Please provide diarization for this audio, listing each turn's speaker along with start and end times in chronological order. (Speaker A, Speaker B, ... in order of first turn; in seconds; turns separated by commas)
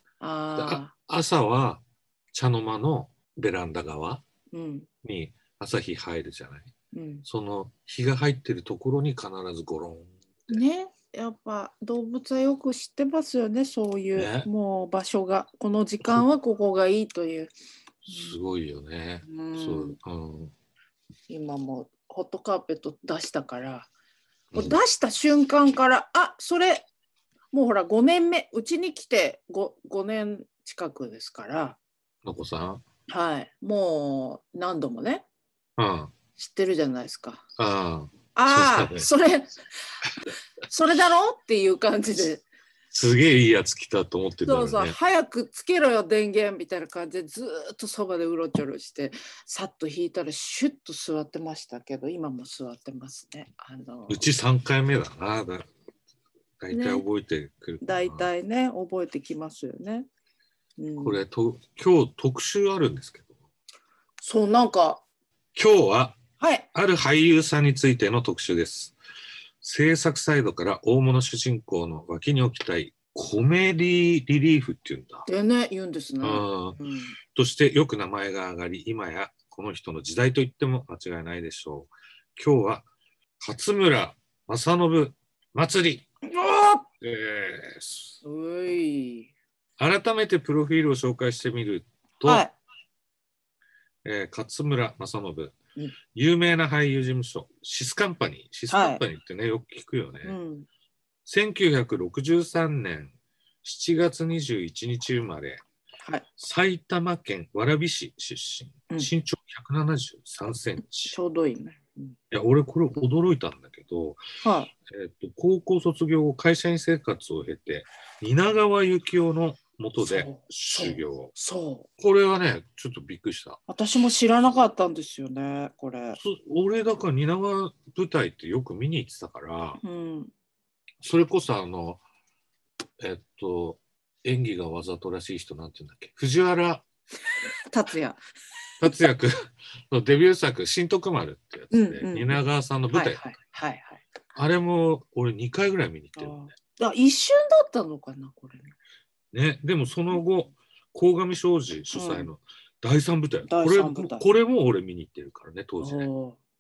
Speaker A: 0.2-0.9, Speaker B: 0.6-4.2, Speaker A: 4.5-4.9, Speaker B: 5.0-6.7, Speaker A: 6.9-7.2, Speaker B: 7.3-10.6, Speaker A: 10.5-17.5, Speaker B: 14.2-14.5, Speaker B: 18.1-20.5, Speaker A: 18.1-18.4, Speaker A: 19.2-20.0, Speaker A: 21.3-23.9, Speaker B: 24.5-24.8, Speaker A: 24.5-26.9, Speaker A: 27.5-31.8, Speaker B: 32.2-32.8, Speaker A: 33.1-35.2, Speaker B: 35.8-36.1, Speaker A: 36.4-37.4, Speaker B: 37.6-39.1, Speaker A: 38.4-39.6, Speaker A: 40.7-42.4, Speaker B: 42.9-45.0, Speaker A: 44.5-54.2, Speaker B: 54.1-55.7, Speaker B: 56.6-58.3, Speaker A: 56.7-57.0, Speaker A: 57.8-60.1, Speaker A: 60.8-61.2, Speaker B: 61.0-63.3, Speaker A: 64.2-65.0, Speaker B: 65.5-66.2, Speaker A: 66.4-66.7, Speaker B: 66.7-69.0, Speaker B: 69.6-75.3, Speaker A: 75.3-77.2, Speaker B: 76.2-76.8, Speaker B: 77.3-82.9, Speaker B: 83.4-86.1, Speaker A: 86.3-86.9, Speaker B: 87.0-88.1, Speaker A: 88.2-89.3, Speaker B: 89.8-92.5, Speaker A: 92.2-92.5, Speaker B: 94.0-95.5, Speaker B: 96.1-100.3, Speaker A: 98.7-99.0, Speaker A: 100.2-100.7, Speaker B: 101.3-103.1, Speaker B: 103.6-105.6, Speaker B: 106.4-111.2, Speaker A: 111.1-112.2, Speaker B: 112.3-114.2, Speaker A: 114.4-114.7, Speaker B: 114.9-121.3, Speaker A: 120.0-121.9, Speaker B: 122.0-123.6, Speaker A: 123.7-126.2, Speaker B: 126.2-129.8, Speaker A: 129.8-130.3, Speaker B: 131.0-132.0, Speaker B: 133.0-136.8, Speaker A: 137.7-138.2, Speaker B: 138.8-143.2, Speaker A: 141.7-142.4, Speaker A: 142.9-144.0, Speaker B: 144.3-146.5, Speaker A: 146.2-148.7, Speaker B: 149.3-156.1, Speaker A: 151.9-152.3, Speaker A: 153.5-154.2, Speaker A: 155.8-156.4